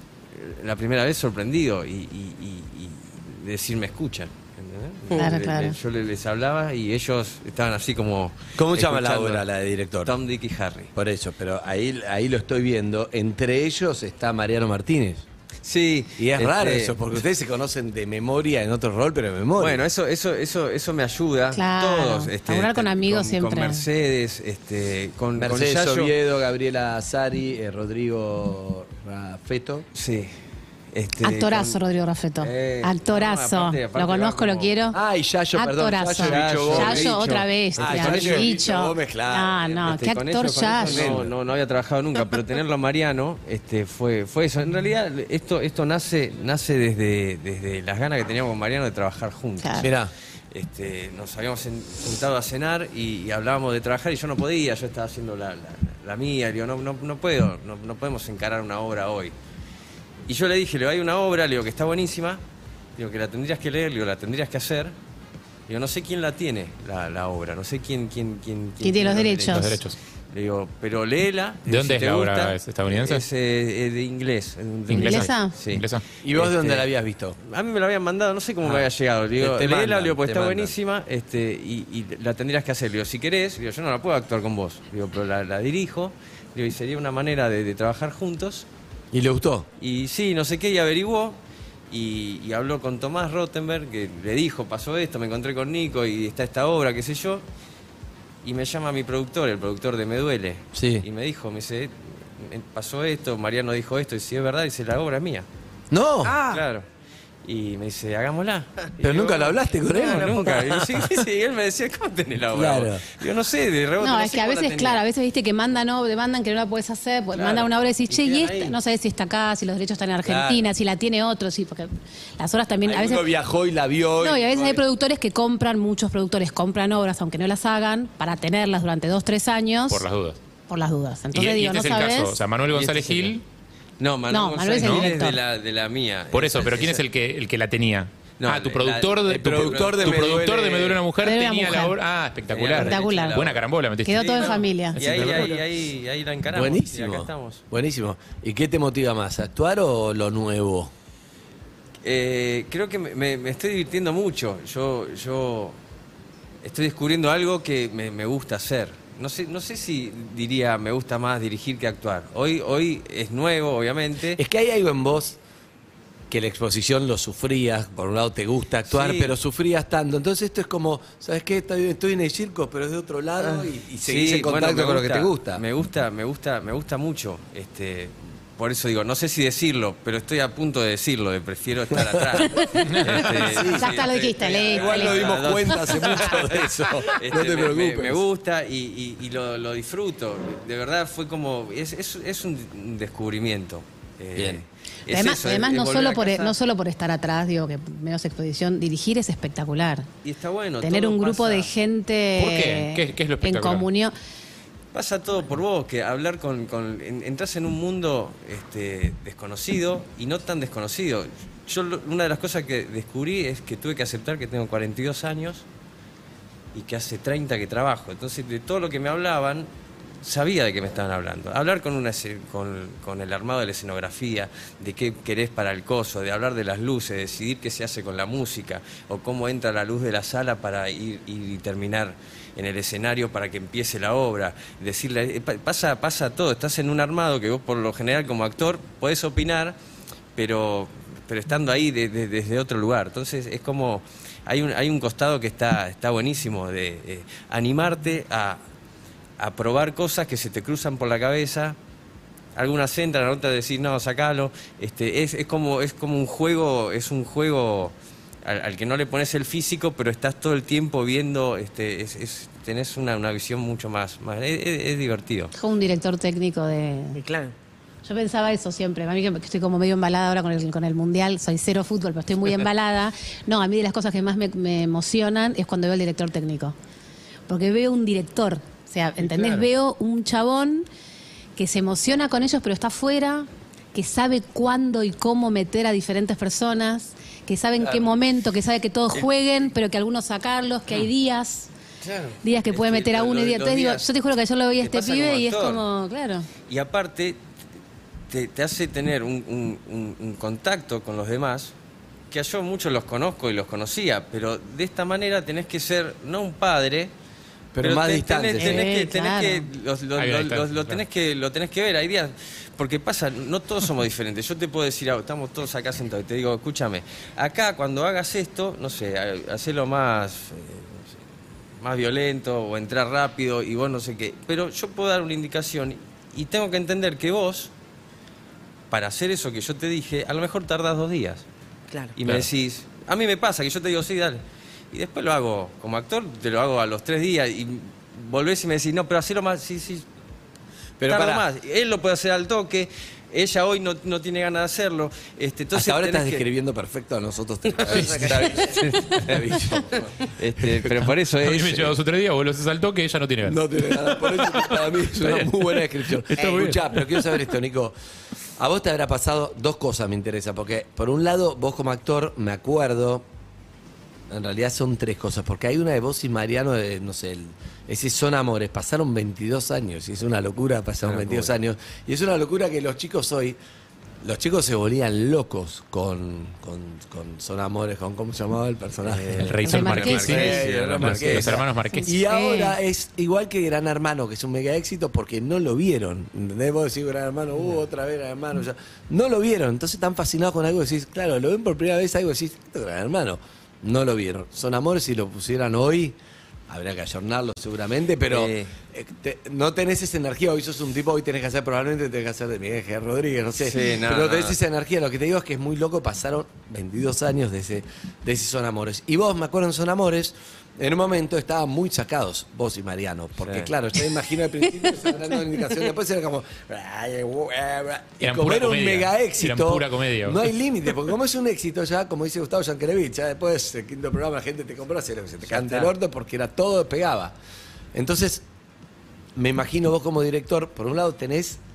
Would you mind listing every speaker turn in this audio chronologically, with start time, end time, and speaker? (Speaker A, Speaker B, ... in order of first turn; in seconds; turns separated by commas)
Speaker A: 0.3-9.5, Speaker B: 5.2-5.8, Speaker C: 8.6-10.2, Speaker A: 10.0-10.9, Speaker C: 11.0-15.2, Speaker A: 15.6-17.1, Speaker C: 16.2-19.8, Speaker A: 19.6-26.1, Speaker B: 21.5-23.9, Speaker C: 25.4-29.9, Speaker A: 29.9-30.3, Speaker A: 30.9-31.8, Speaker B: 31.2-35.0, Speaker A: 32.4-34.7, Speaker C: 34.9-37.1, Speaker B: 35.5-41.1, Speaker A: 36.2-38.5, Speaker C: 37.8-39.6, Speaker A: 39.6-49.9, Speaker C: 40.8-41.3, Speaker B: 49.6-49.9, Speaker C: 49.8-50.1, Speaker A: 50.5-59.3, Speaker A: 60.3-62.4, Speaker A: 63.0-65.0, Speaker A: 65.7-76.9, Speaker B: 68.8-69.8, Speaker D: 69.5-70.0, Speaker D: 71.7-73.2, Speaker D: 74.9-76.0, Speaker B: 75.0-75.5, Speaker C: 76.2-77.4, Speaker A: 77.4-88.7, Speaker C: 78.6-80.8, Speaker C: 89.1-89.7, Speaker A: 89.8-91.4, Speaker A: 91.9-97.4, Speaker A: 98.4-105.5, Speaker C: 100.7-101.1, Speaker C: 105.9-106.4, Speaker E: 106.2-106.6, Speaker A: 106.5-106.9, Speaker A: 107.5-115.0, Speaker C: 109.0-111.1, Speaker C: 112.5-113.1, Speaker B: 114.0-123.3, Speaker A: 117.3-118.7, Speaker C: 120.2-120.7, Speaker C: 122.8-124.8, Speaker B: 124.2-130.1, Speaker D: 129.9-130.4, Speaker B: 130.7-132.4, Speaker D: 131.3-133.4, Speaker A: 132.7-133.3, Speaker A: 134.0-137.0, Speaker B: 134.3-135.4, Speaker D: 134.8-135.1, Speaker D: 136.3-144.6, Speaker A: 138.4-140.4, Speaker C: 139.3-141.0, Speaker B: 141.2-142.0, Speaker A: 142.5-147.6, Speaker B: 142.8-143.4, Speaker B: 144.0-145.0, Speaker C: 145.0-145.6, Speaker D: 145.1-145.4, Speaker C: 146.5-150.9, Speaker A: 152.0-155.8, Speaker A: 156.6-164.4, Speaker C: 164.4-165.4, Speaker C: 166.3-175.6, Speaker A: 168.9-169.3, Speaker A: 173.4-196.6, Speaker C: 181.9-182.5, Speaker B: 182.4-183.0, Speaker D: 182.8-183.1, Speaker C: 183.0-188.2, Speaker B: 183.6-186.0, Speaker C: 194.4-194.6, Speaker B: 195.1-200.1, Speaker A: 200.2-201.7, Speaker B: 200.8-204.1, Speaker D: 202.4-203.9, Speaker A: 204.9-215.7, Speaker A: 216.7-219.7, Speaker A: 220.2-239.8, Speaker A: 240.4-248.6, Speaker A: 249.4-251.8, Speaker A: 252.6-265.5, Speaker B: 265.6-267.2, Speaker E: 267.1-267.5, Speaker B: 268.0-276.8, Speaker B: 277.5-280.9, Speaker A: 279.2-279.7, Speaker B: 281.6-291.7, Speaker A: 287.8-288.1, Speaker A: 292.0-295.8, Speaker B: 292.4-296.5, Speaker A: 296.7-297.4, Speaker A: 298.3-301.7, Speaker A: 302.3-307.1, Speaker C: 307.7-308.8, Speaker A: 307.8-321.2, Speaker B: 308.6-309.7, Speaker D: 310.2-311.0, Speaker A: 321.8-327.7, Speaker A: 328.9-331.4, Speaker A: 332.2-340.1, Speaker C: 341.0-341.5, Speaker A: 341.1-346.5, Speaker C: 345.7-350.1, Speaker A: 347.8-352.0, Speaker E: 347.9-348.8, Speaker C: 350.6-351.1, Speaker D: 351.4-353.6, Speaker C: 353.4-357.9, Speaker A: 355.0-355.6, Speaker E: 356.4-356.7, Speaker A: 356.4-356.8, Speaker C: 358.6-363.3, Speaker C: 364.3-373.6, Speaker A: 371.0-371.5, Speaker C: 374.2-379.6, Speaker A: 379.0-381.6, Speaker D: 379.4-382.1, Speaker B: 379.6-380.4, Speaker C: 380.1-396.2, Speaker B: 381.9-382.8, Speaker C: 396.7-427.3, Speaker A: 398.3-398.7, Speaker A: 403.6-404.6, Speaker A: 413.4-413.7, Speaker D: 418.2-420.5, Speaker A: 425.4-425.9, Speaker C: 427.9-428.4, Speaker C: 429.4-431.6